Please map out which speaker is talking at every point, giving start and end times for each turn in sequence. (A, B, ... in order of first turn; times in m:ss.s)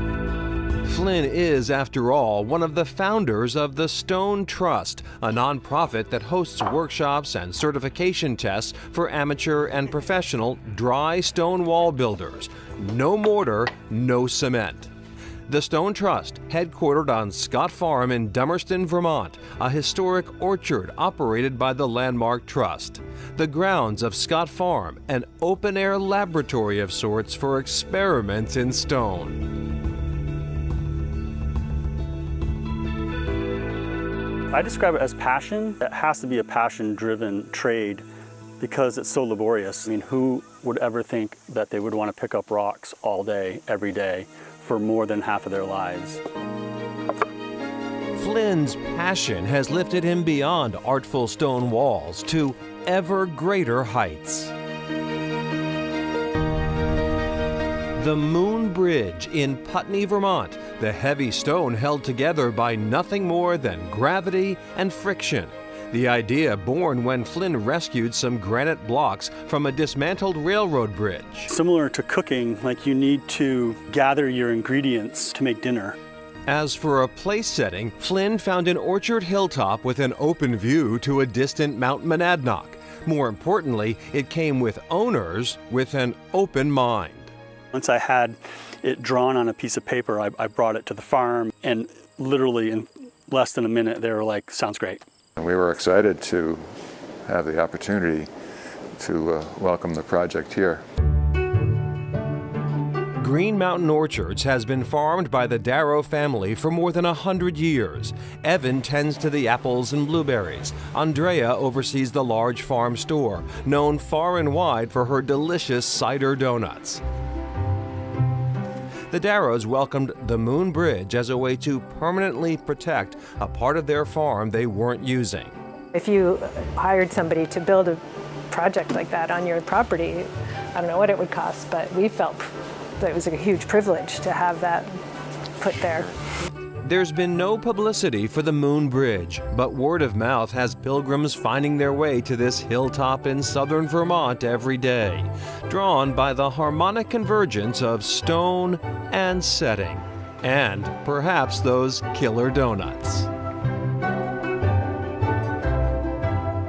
0:00.8-0:14.9 A
0:15.5-0:29.4 A
0:34.5-0:38.0 B
0:38.6-0:46.2 B
0:48.1-0:54.5 A
0:58.0-1:11.5 A
1:11.5-1:16.0 B
1:16.5-1:27.3 A
1:27.7-1:35.0 B
1:35.4-1:36.6 C
1:37.3-1:38.3 C
1:39.0-1:40.8 C
1:43.2-1:57.0 A
1:59.1-2:05.6 A
2:05.9-2:12.4 D
2:13.0-2:14.9 D
2:15.6-2:16.2 D
2:16.8-2:33.3 A